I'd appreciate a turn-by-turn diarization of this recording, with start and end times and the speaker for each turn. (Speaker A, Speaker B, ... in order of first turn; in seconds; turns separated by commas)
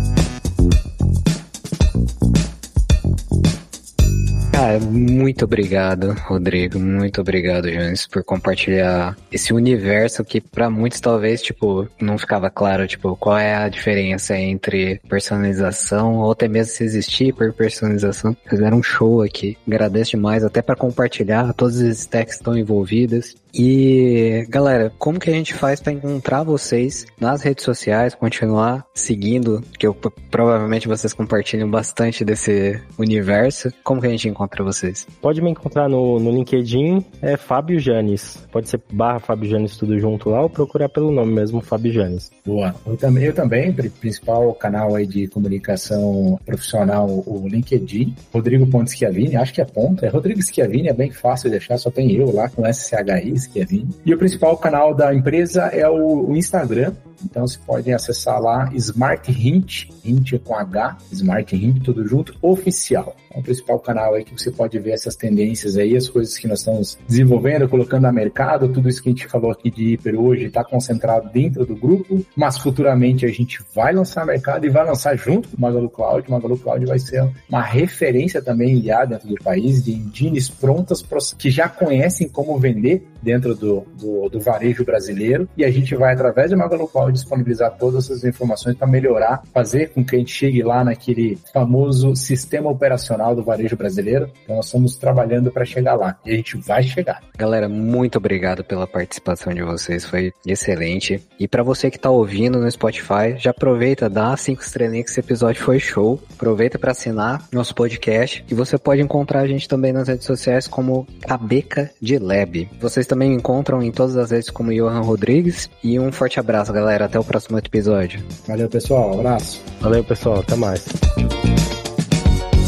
Speaker A: 4.5-35.1, Speaker B: 35.2-42.3, Speaker C: 42.4-97.2, Speaker A: 97.4-118.3, Speaker C: 118.4-119.6, Speaker B: 119.8-121.0